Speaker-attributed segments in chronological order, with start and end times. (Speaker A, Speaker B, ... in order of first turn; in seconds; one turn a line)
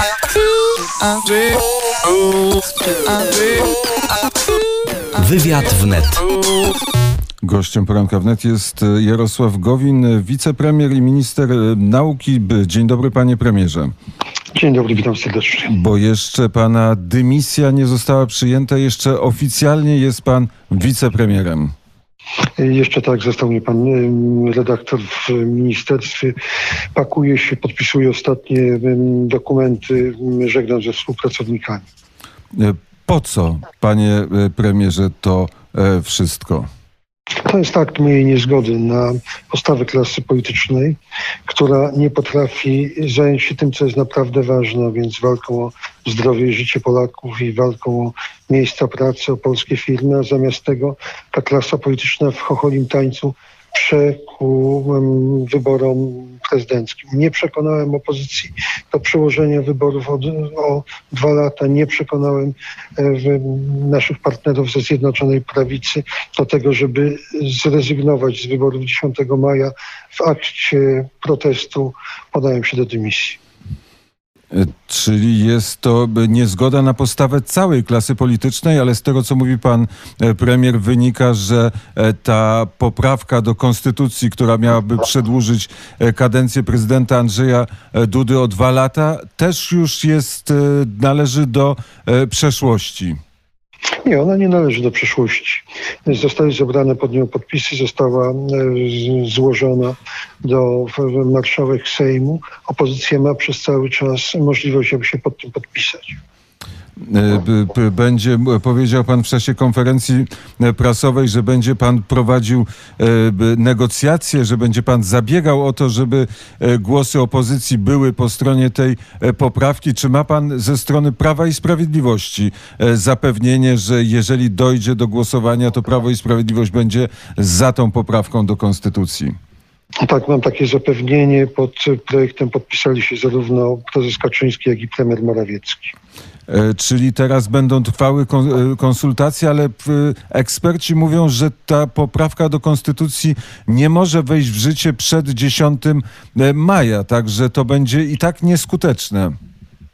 Speaker A: 0.7-1.6
Speaker A: 2.5-3.8
Speaker A: 5.1-6.7
Speaker B: 7.4-13.9
Speaker C: 14.5-15.7
Speaker B: 15.7-21.7
Speaker C: 22.6-26.3
Speaker C: 26.9-31.9
Speaker B: 32.5-36.7
Speaker C: 37.4-73.4
Speaker B: 74.5-93.2
Speaker C: 94.0-106.2
Speaker B: 107.0-129.3
Speaker C: 130.0-135.9
Speaker B: 136.5-149.3